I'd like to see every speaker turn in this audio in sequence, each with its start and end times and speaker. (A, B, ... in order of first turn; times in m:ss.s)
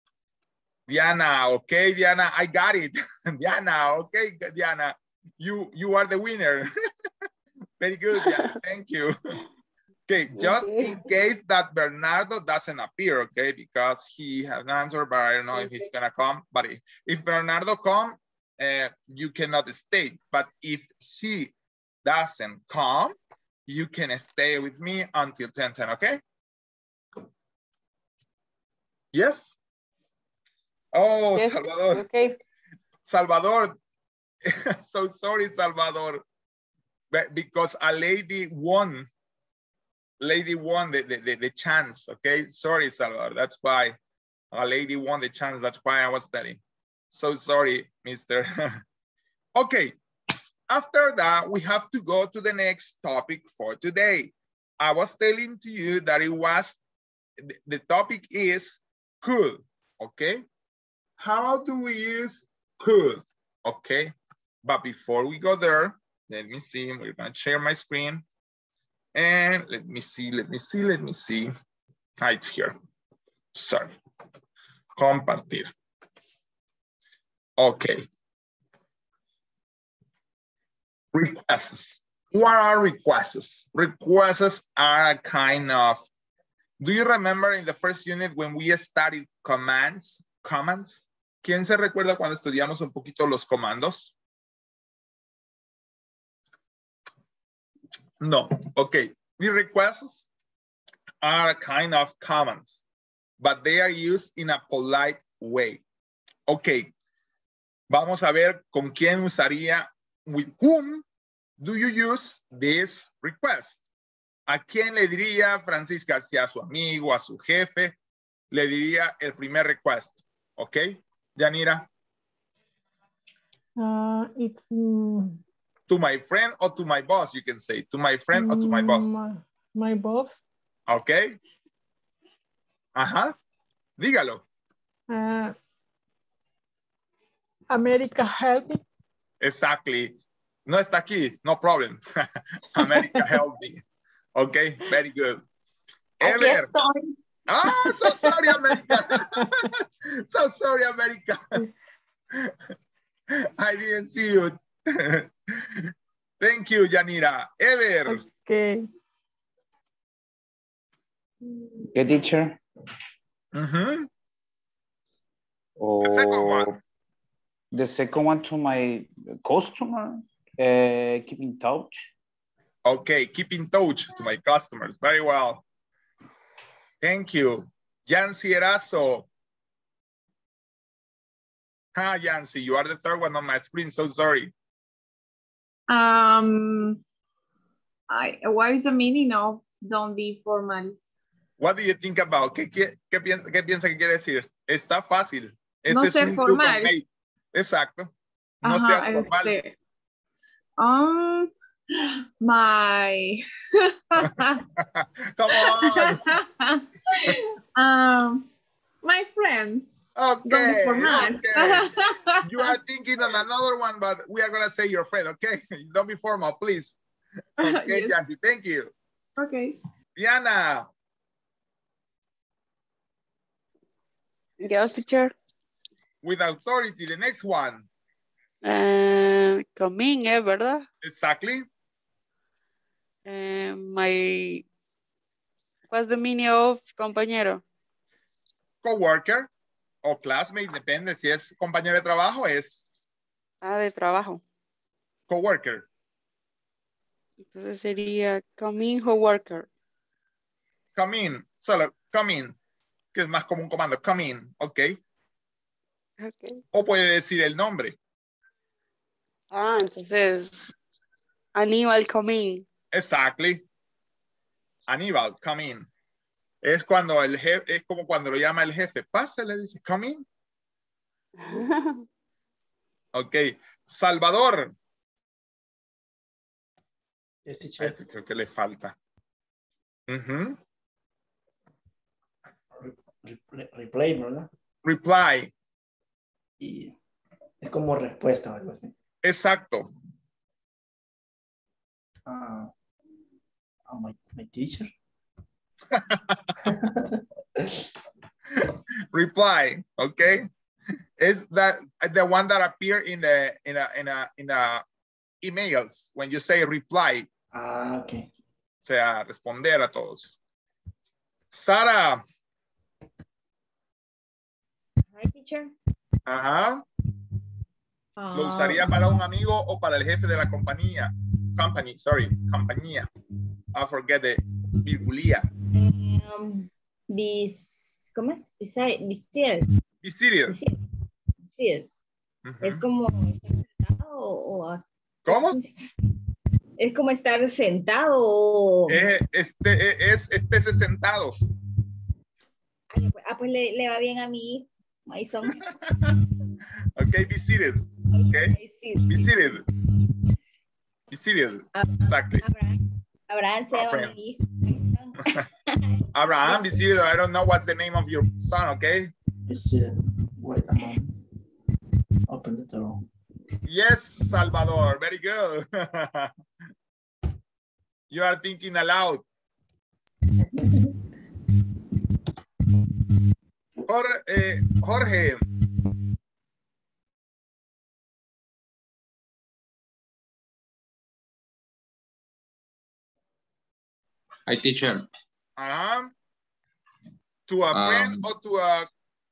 0:00.9-0:06.7 A
0:07.8-0:09.1 A
0:10.1-0:23.1 A
0:23.7-0:26.2 A
0:29.1-0:29.6 A
0:30.9-0:32.0 A
0:31.3-0:32.4 B
0:33.0-0:33.8 A
0:34.5-0:36.2 A
0:37.1-0:39.1 A
0:40.2-0:44.0 A
0:44.5-0:48.8 A
0:49.5-0:49.9 A
0:50.7-0:56.8 A
0:57.4-1:00.4 A
1:01.2-1:08.2 A
1:09.1-1:11.5 A
1:12.2-1:12.7 A
1:13.5-1:13.9 A
1:15.0-1:15.7 A
1:17.6-1:18.0 A
1:21.1-1:26.0 A
1:26.8-1:34.1 A
1:38.2-1:40.3 A
1:41.2-1:42.8 A
1:43.4-1:45.8 A
1:46.5-1:46.9 A
1:47.9-1:51.0 A
1:51.6-1:53.8 A
1:54.5-1:58.0 A
1:58.5-2:01.9 A
2:03.8-2:05.4 C
2:05.9-2:09.2 A
2:08.3-2:10.4 C
2:10.9-2:11.4 A
2:12.9-2:13.3 A
2:14.0-2:14.4 A
2:15.1-2:15.5 C
2:17.7-2:18.8 C
2:19.4-2:22.0 A
2:22.8-2:23.8 A
2:24.3-2:25.4 A
2:26.2-2:26.7 A
2:27.5-2:31.6 A
2:33.4-2:38.2 A
2:38.1-2:38.8 C
2:41.9-2:42.6 D
2:43.5-2:44.1 A
2:45.8-2:46.8 D
2:46.0-2:46.7 A
2:47.7-2:52.1 D
2:52.8-2:55.6 A
2:57.0-2:59.3 A
3:01.9-3:04.5 A
3:05.9-3:07.0 E
3:08.1-3:11.0 E
3:11.6-3:18.1 A
3:15.9-3:16.9 E
3:18.6-3:19.7 E
3:18.6-3:19.6 A
3:20.8-3:24.6 E
3:24.8-3:26.2 A
3:25.5-3:28.5 E
3:29.0-3:32.7 E
3:30.2-3:31.9 A
3:32.4-3:37.0 A
3:37.6-3:38.3 E
3:37.6-3:38.9 A
3:39.4-3:39.8 E
3:40.2-3:40.9 A
3:44.6-3:45.3 B
3:46.2-3:47.9 A
3:48.6-3:50.8 B
3:51.0-3:51.6 A
3:53.2-3:54.6 B
3:55.9-3:57.6 B
3:58.8-3:59.5 A
4:00.0-4:02.8 A
4:03.6-4:04.4 B
4:05.3-4:05.8 A
4:07.5-4:09.7 B
4:11.0-4:12.6 A
4:13.1-4:15.0 A
4:16.2-4:16.6 B
4:16.7-4:18.0 A
4:19.5-4:20.7 B
4:21.5-4:22.6 B
4:22.9-4:23.6 A
4:24.9-4:25.9 A
4:26.6-4:30.2 A
4:31.4-4:32.0 B
4:33.1-4:34.7 A
4:37.4-4:38.0 F
4:37.8-4:38.9 A
4:40.1-4:40.6 A
4:42.8-4:44.5 F
4:44.8-4:45.5 A
4:46.6-4:46.9 F
4:47.6-4:48.9 F
4:49.2-4:49.9 A
4:52.2-4:52.7 F
4:53.9-4:54.9 F
4:55.9-4:56.4 A
4:56.6-4:57.8 F
4:58.6-5:00.5 A
5:01.2-5:04.8 A
5:05.4-5:07.3 A
5:07.5-5:08.3 F
5:08.8-5:10.4 A
5:11.5-5:12.2 A
5:15.1-5:15.7 G
5:16.2-5:16.8 A
5:18.2-5:19.0 G
5:18.3-5:23.1 A
5:23.7-5:25.5 A
5:25.7-5:29.7 G
5:30.0-5:30.5 A
5:30.5-5:30.8 G
5:31.4-5:31.9 G
5:32.4-5:32.8 A
5:32.6-5:35.7 G
5:35.2-5:35.6 A
5:36.8-5:39.0 G
5:38.9-5:41.3 A
5:42.9-5:45.6 G
5:45.6-5:46.1 A
5:47.0-5:48.5 A
5:48.1-5:49.3 G
5:49.1-5:49.6 A
5:51.1-5:52.4 A
5:51.8-5:55.8 G
5:53.7-5:54.1 A
5:56.1-5:59.1 A
5:56.4-5:56.8 G
5:59.5-6:01.1 F
6:02.3-6:03.0 F
6:03.6-6:06.3 A
6:08.1-6:09.2 A
6:13.9-6:15.4 A
6:24.5-6:25.0 D
6:25.6-6:26.1 A
6:27.5-6:28.9 A
6:27.7-6:28.2 D